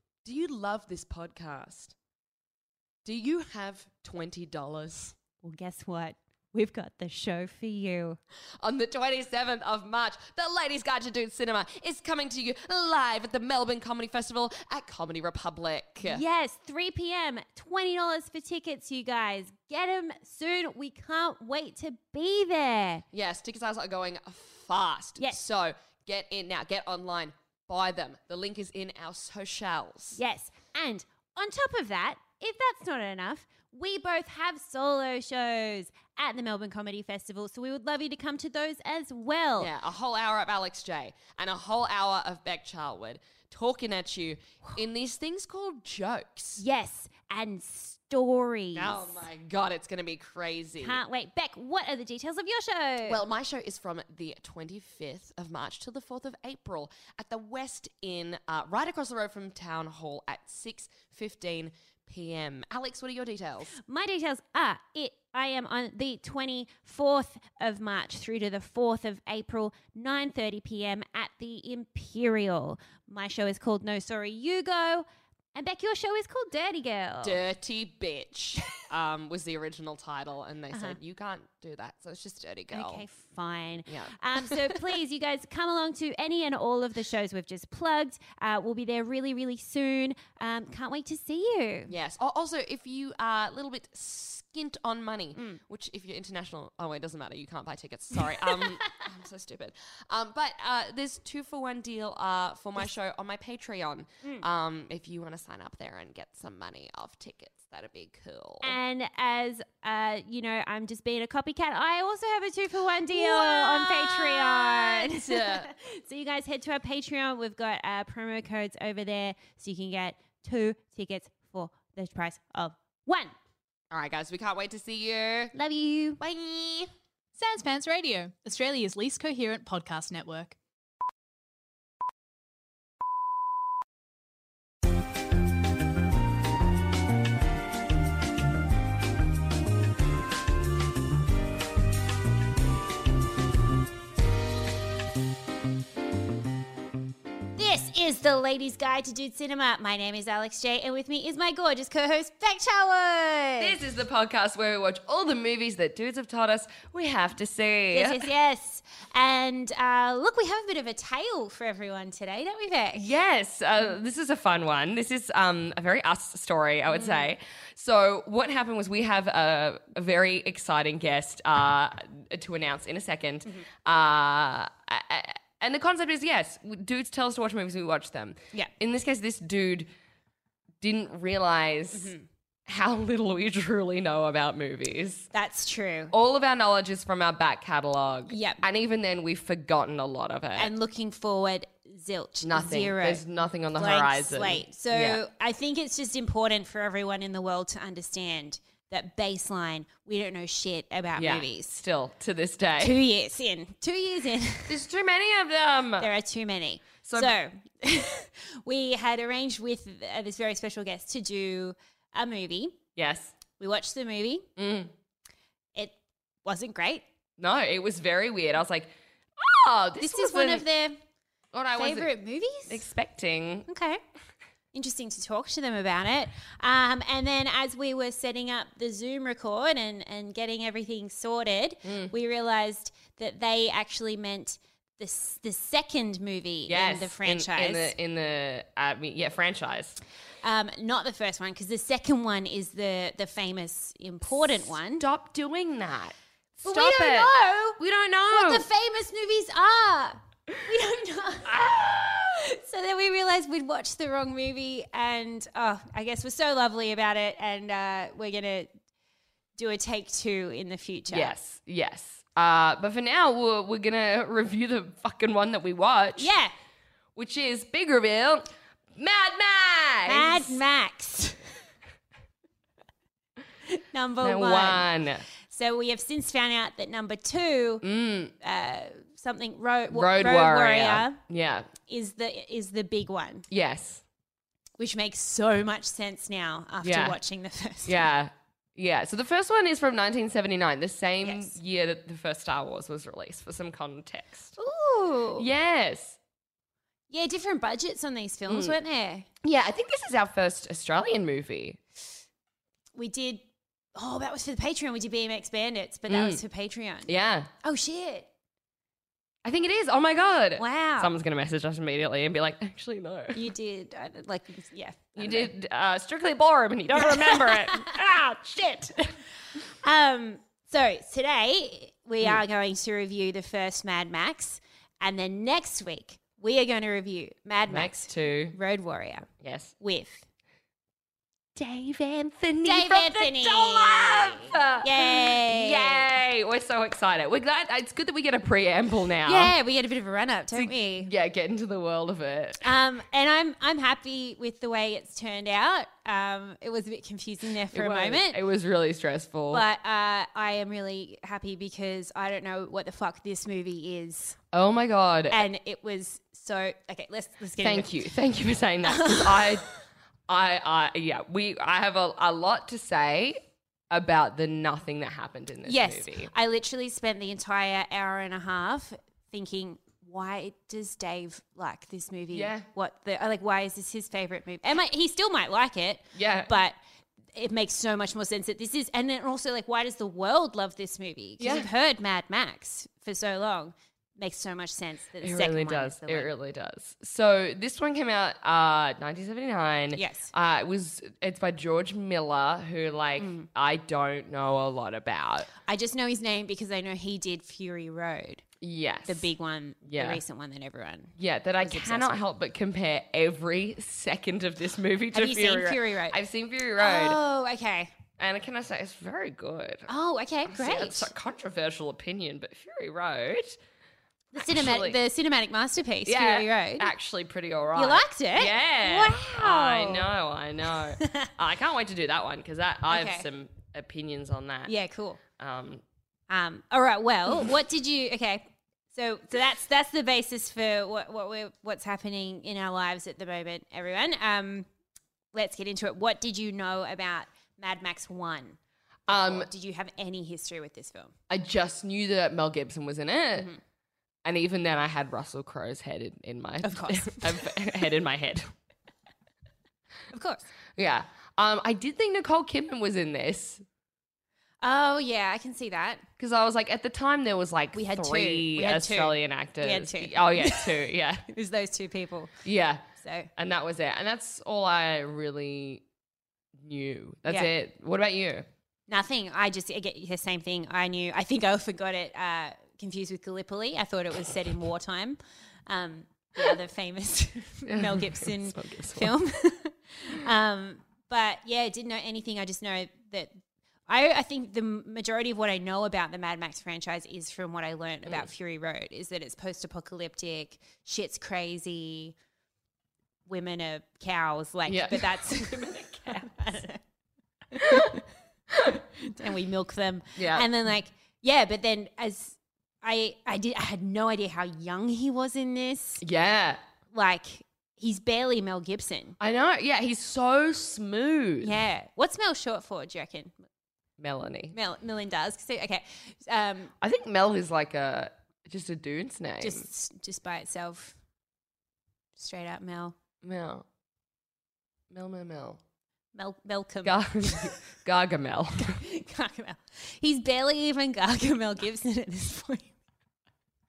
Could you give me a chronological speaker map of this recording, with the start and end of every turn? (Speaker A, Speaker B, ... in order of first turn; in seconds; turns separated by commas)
Speaker A: 0.2-1.9, Speaker A: 3.0-5.1, Speaker B: 5.4-8.2, Speaker A: 8.6-16.2, Speaker B: 16.0-23.0, Speaker A: 23.1-30.2, Speaker B: 30.1-39.7, Speaker A: 39.6-46.6, Speaker B: 46.6-49.2, Speaker A: 48.7-51.0, Speaker B: 50.8-53.2, Speaker A: 53.0-63.7, Speaker B: 63.7-77.4, Speaker A: 77.2-83.0, Speaker B: 80.7-81.0, Speaker B: 82.7-91.9, Speaker A: 83.9-84.8, Speaker A: 91.9-108.7, Speaker B: 108.6-123.3, Speaker A: 113.1-115.7, Speaker A: 123.9-125.5, Speaker B: 125.5-126.2, Speaker A: 126.2-126.9, Speaker C: 127.3-130.6, Speaker B: 147.6-153.8, Speaker A: 153.6-158.2, Speaker B: 157.9-163.1, Speaker A: 162.9-179.9, Speaker B: 166.9-167.3, Speaker A: 180.8-182.1, Speaker B: 181.9-182.2, Speaker A: 182.7-185.3, Speaker B: 185.3-186.1, Speaker A: 186.1-190.7, Speaker B: 188.3-188.6, Speaker B: 190.6-193.2, Speaker A: 192.4-195.2, Speaker B: 193.8-201.8, Speaker A: 201.2-203.0, Speaker B: 202.8-204.8, Speaker A: 204.7-206.1, Speaker B: 206.0-212.8, Speaker A: 207.0-207.3, Speaker A: 212.9-213.3, Speaker B: 213.6-214.4, Speaker A: 214.6-214.9, Speaker B: 215.7-217.0, Speaker A: 217.4-220.6, Speaker B: 220.0-221.0, Speaker A: 221.5-222.1, Speaker B: 221.8-222.8, Speaker A: 222.7-223.7, Speaker B: 223.7-224.0, Speaker B: 224.7-237.9, Speaker A: 231.8-232.1, Speaker A: 236.7-240.0, Speaker B: 240.4-245.1, Speaker A: 245.0-248.6, Speaker B: 246.6-251.5, Speaker A: 251.4-252.3, Speaker B: 252.3-258.7, Speaker B: 259.6-261.3, Speaker A: 261.1-266.3, Speaker B: 266.2-266.5, Speaker A: 267.1-270.6, Speaker B: 270.1-271.4, Speaker B: 273.7-274.9, Speaker A: 274.2-275.2, Speaker B: 275.4-277.8, Speaker A: 277.8-278.3, Speaker B: 278.4-281.2, Speaker A: 279.9-281.7, Speaker B: 281.9-283.5, Speaker A: 283.5-284.0, Speaker B: 284.8-288.0, Speaker A: 286.8-287.2, Speaker A: 287.8-294.5, Speaker B: 291.2-291.5, Speaker B: 294.6-295.5, Speaker A: 295.4-296.2, Speaker B: 297.1-299.3, Speaker A: 298.5-298.7, Speaker A: 299.4-301.8, Speaker B: 302.9-303.4, Speaker B: 303.9-307.1, Speaker A: 306.1-306.4, Speaker A: 307.1-307.5, Speaker B: 307.6-308.3, Speaker A: 309.4-313.4, Speaker B: 310.6-311.1, Speaker B: 313.3-315.5, Speaker A: 315.1-319.2, Speaker B: 316.9-317.9, Speaker B: 319.7-329.3, Speaker A: 327.7-328.6, Speaker A: 329.4-329.7, Speaker B: 329.8-330.2, Speaker A: 331.6-339.5, Speaker B: 332.6-336.1, Speaker B: 339.2-341.1, Speaker A: 340.5-342.6, Speaker B: 342.6-348.4, Speaker A: 347.7-349.6, Speaker B: 349.5-354.4, Speaker A: 354.5-355.4, Speaker B: 355.3-357.9, Speaker A: 357.6-359.7, Speaker B: 358.8-359.6, Speaker A: 360.3-366.3, Speaker B: 365.6-376.8, Speaker A: 372.3-372.7, Speaker A: 376.1-376.5, Speaker B: 377.3-386.3, Speaker A: 381.4-381.7, Speaker A: 385.2-395.5, Speaker B: 389.9-390.3, Speaker B: 393.2-393.5, Speaker B: 395.6-398.4, Speaker A: 398.6-399.3, Speaker B: 399.1-402.1, Speaker A: 399.8-400.2, Speaker A: 401.2-407.2, Speaker B: 405.1-406.2, Speaker B: 406.8-407.9, Speaker A: 408.2-409.9, Speaker B: 409.9-411.1, Speaker A: 410.5-413.6, Speaker B: 414.3-416.9, Speaker A: 414.4-415.0, Speaker A: 416.1-424.7, Speaker B: 417.8-420.1, Speaker B: 421.0-421.3, Speaker B: 422.9-423.2, Speaker B: 424.7-425.2, Speaker A: 425.4-425.8, Speaker B: 426.3-434.7, Speaker B: 435.3-438.6, Speaker A: 439.1-439.5, Speaker B: 439.1-441.1, Speaker A: 441.3-443.5, Speaker A: 444.2-448.5, Speaker B: 446.6-447.7, Speaker B: 450.1-450.4, Speaker A: 450.8-453.6, Speaker B: 454.6-456.0, Speaker A: 456.2-461.3, Speaker B: 457.7-462.3, Speaker A: 462.4-465.8, Speaker B: 463.0-463.3, Speaker A: 466.6-468.5, Speaker B: 468.9-492.1, Speaker A: 477.6-479.1, Speaker B: 493.2-496.8, Speaker A: 494.7-496.3, Speaker B: 497.6-498.0, Speaker A: 497.6-498.0, Speaker B: 498.9-506.0, Speaker A: 500.1-500.5, Speaker A: 506.0-506.6, Speaker B: 506.9-509.2, Speaker A: 509.2-511.6, Speaker B: 511.4-513.5, Speaker A: 514.0-514.5, Speaker B: 514.5-516.7, Speaker A: 516.8-519.6, Speaker B: 519.4-521.0, Speaker B: 522.1-522.9, Speaker A: 523.2-523.6, Speaker A: 524.9-525.6, Speaker B: 526.1-527.5, Speaker A: 526.8-528.8, Speaker B: 528.6-532.7